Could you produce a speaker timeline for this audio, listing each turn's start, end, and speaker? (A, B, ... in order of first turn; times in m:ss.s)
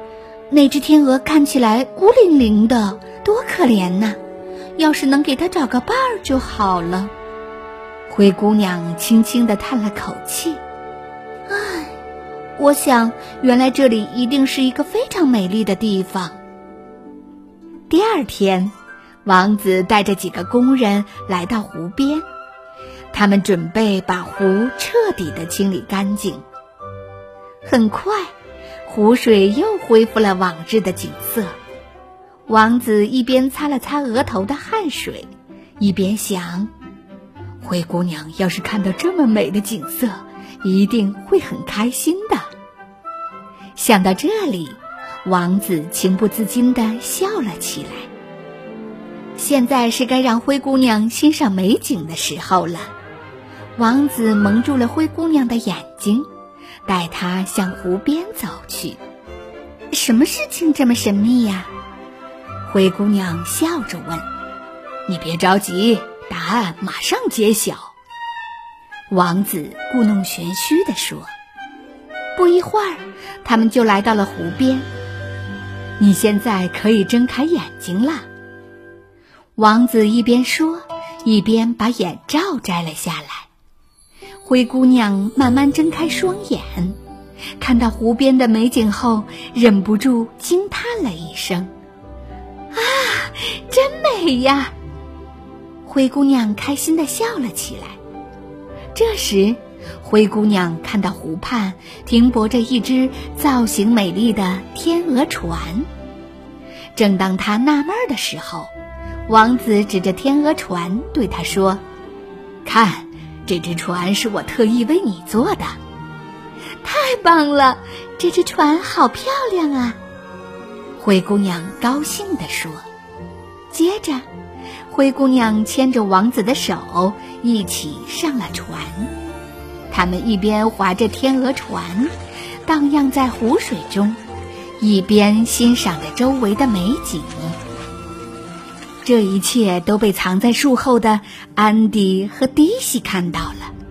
0:00.5-0:04.2 A
0:04.8-0:07.1 A
0:08.1-0:10.6 A
0:11.5-0:12.0 A
0:12.6-0:16.4 A
0:17.9-0:18.7 A
0:19.2-0:22.2 A
0:23.1-0:26.4 A
0:27.6-0:28.3 A
0:28.9-0:31.6 A
0:32.5-0:36.7 A
0:37.6-0:42.5 A
0:43.8-0:48.1 A
0:49.4-0:52.9 A
0:53.8-0:56.3 A
0:56.9-0:59.0 A
0:59.9-1:01.7 A
1:02.7-1:04.3 A
1:05.1-1:07.9 A
1:09.1-1:11.3 A
1:12.4-1:14.9 A
1:16.0-1:18.3 A
1:19.6-1:23.5 A
1:24.4-1:27.0 A
1:27.6-1:31.7 A
1:32.7-1:34.7 A
1:35.8-1:38.0 A
1:39.0-1:45.9 A
1:47.0-1:48.7 A
1:49.3-1:51.8 A
1:52.6-1:55.8 A
1:56.8-2:00.0 A
2:01.0-2:02.8 A
2:03.7-2:04.3 A
2:04.9-2:09.1 A
2:09.9-2:12.1 A
2:12.7-2:14.2 A
2:14.8-2:17.6 A
2:19.0-2:23.7 A